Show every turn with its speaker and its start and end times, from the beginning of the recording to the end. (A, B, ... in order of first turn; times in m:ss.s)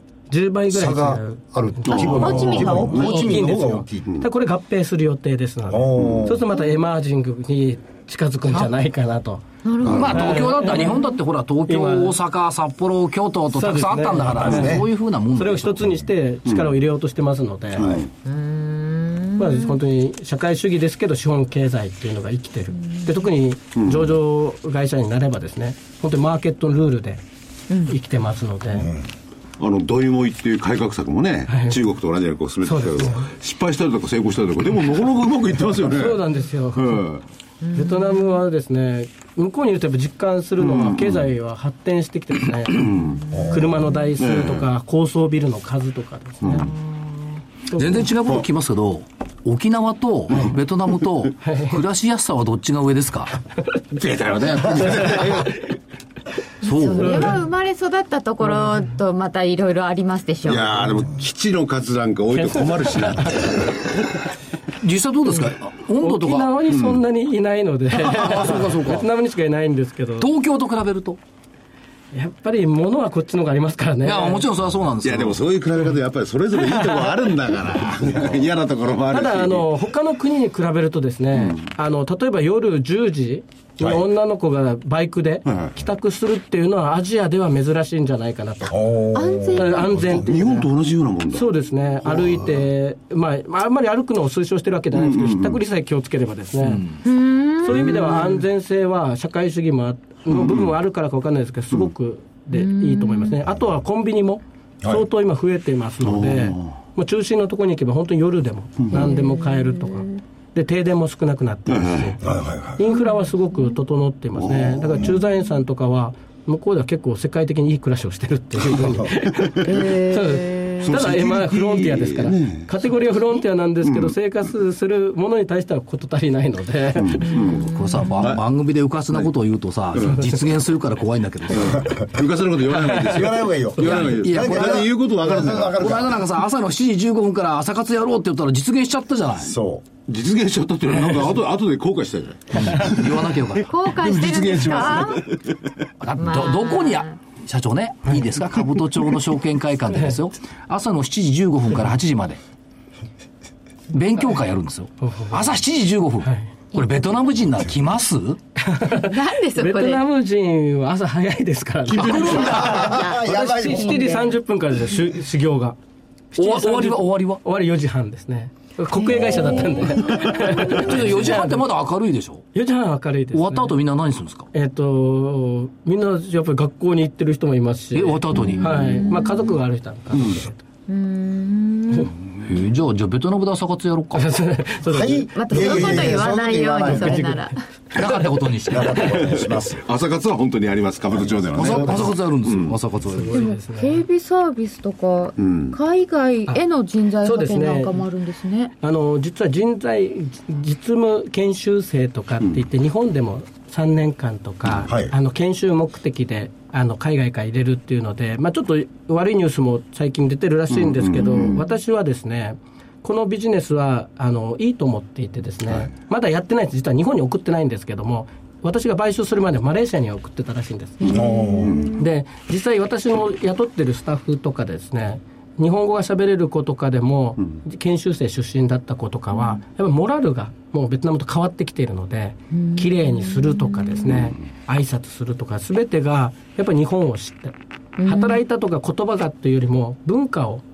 0:00.3-0:09.4 A
0:00.7-0:04.1 B
0:01.8-0:03.2 C
0:02.2-0:03.3 D
0:05.7-0:06.4 B
0:06.0-0:06.3 C
0:09.6-0:11.1 D
0:09.8-0:10.1 C
0:09.8-0:15.8 E
0:10.1-0:11.0 A
0:11.7-0:12.1 A
0:13.5-0:14.8 A
0:14.4-0:14.8 B
0:15.3-0:18.0 A
0:16.4-0:16.7 C
0:17.8-0:18.1 C
0:18.2-0:19.8 D
0:19.4-0:27.2 A
0:22.9-0:23.1 D
0:23.7-0:24.2 C
0:27.7-0:27.9 D
0:27.9-0:28.9 A
0:29.6-0:36.2 C
0:31.5-0:31.8 A
0:32.6-0:33.3 A
0:35.9-0:37.0 A
0:36.7-0:37.2 C
0:37.6-0:38.3 D
0:37.7-0:42.9 A
0:40.6-0:41.3 C
0:42.8-0:43.2 C
0:42.9-0:44.0 D
0:43.3-0:43.8 B
0:43.5-0:46.7 A
0:44.2-0:44.7 C
0:46.4-0:46.7 C
0:46.5-0:47.4 D
0:47.7-0:48.0 A
0:47.7-0:53.4 E
0:50.3-0:50.5 A
0:51.4-0:51.8 A
0:53.9-0:55.6 C
0:54.8-0:55.5 A
0:56.6-1:01.0 D
0:56.6-0:57.3 E
0:57.0-0:57.4 A
1:00.4-1:04.2 C
1:02.4-1:03.3 A
1:04.8-1:06.5 E
1:06.0-1:10.3 A
1:06.7-1:07.0 C
1:08.0-1:09.1 E
1:10.2-1:11.2 E
1:12.1-1:14.4 A
1:14.0-1:15.4 E
1:15.0-1:19.7 C
1:16.5-1:17.4 A
1:19.1-1:28.8 A
1:21.3-1:21.6 C
1:25.4-1:25.8 C
1:28.7-1:30.0 B
1:29.1-1:30.2 D
1:29.5-1:30.7 A
1:30.0-1:31.5 C
1:31.3-1:36.8 A
1:34.9-1:35.6 C
1:36.6-1:37.0 E
1:37.0-1:38.3 D
1:37.6-1:52.2 A
1:40.3-1:40.7 C
1:42.5-1:43.4 D
1:46.0-1:46.8 C
1:48.8-1:49.1 C
1:48.9-1:50.1 D
1:51.7-1:52.1 C
1:52.2-1:52.8 B
1:52.7-2:07.5 A
1:52.9-1:53.2 D
1:54.4-1:55.1 C
1:58.8-1:59.1 B
1:59.3-1:59.8 C
1:59.6-2:00.8 D
2:00.8-2:02.7 C
2:03.8-2:04.1 C
2:07.0-2:08.4 C
2:07.3-2:08.2 D
2:07.4-2:11.9 E
2:10.0-2:10.2 C
2:11.5-2:15.7 C
2:12.8-2:14.1 A
2:12.9-2:16.2 B
2:13.8-2:19.5 E
2:19.4-2:19.9 B
2:20.1-2:25.8 C
2:22.6-2:22.9 A
2:22.6-2:23.7 E
2:23.7-2:25.3 D
2:24.4-2:25.1 B
2:26.0-2:32.4 E
2:26.2-2:27.1 D
2:33.9-2:38.4 E
2:35.0-2:35.4 A
2:36.2-2:36.5 A
2:38.6-2:45.8 A
2:38.8-2:40.0 D
2:41.9-2:42.8 E
2:42.0-2:44.3 D
2:42.5-2:44.2 B
2:46.3-2:51.7 A
2:46.4-2:47.4 E
2:48.9-2:51.0 D
2:49.6-2:50.8 C
2:50.6-2:52.5 E
2:52.5-2:53.8 A
2:53.3-2:54.5 E
2:54.5-3:00.6 A
2:57.9-2:59.0 E
2:58.3-2:59.6 D
3:00.1-3:00.4 C
3:00.9-3:02.1 D
3:02.4-3:04.3 E
3:04.1-3:05.3 A
3:04.8-3:07.5 B
3:05.3-3:07.6 D
3:07.9-3:09.1 E
3:08.7-3:09.8 B
3:08.9-3:12.8 C
3:11.1-3:12.1 B
3:11.6-3:13.4 E
3:13.1-3:14.0 A
3:13.3-3:18.7 D
3:15.4-3:15.8 C
3:17.2-3:18.0 A
3:18.8-3:41.2 A
3:24.8-3:25.1 B
3:30.7-3:31.5 C
3:31.2-3:31.7 D
3:41.0-3:42.1 D
3:41.0-3:41.9 B
3:41.6-3:41.9 C
3:42.0-4:00.6 A
3:49.3-3:49.6 D
3:52.5-3:54.3 D
3:54.1-3:54.4 C
3:58.0-3:58.4 D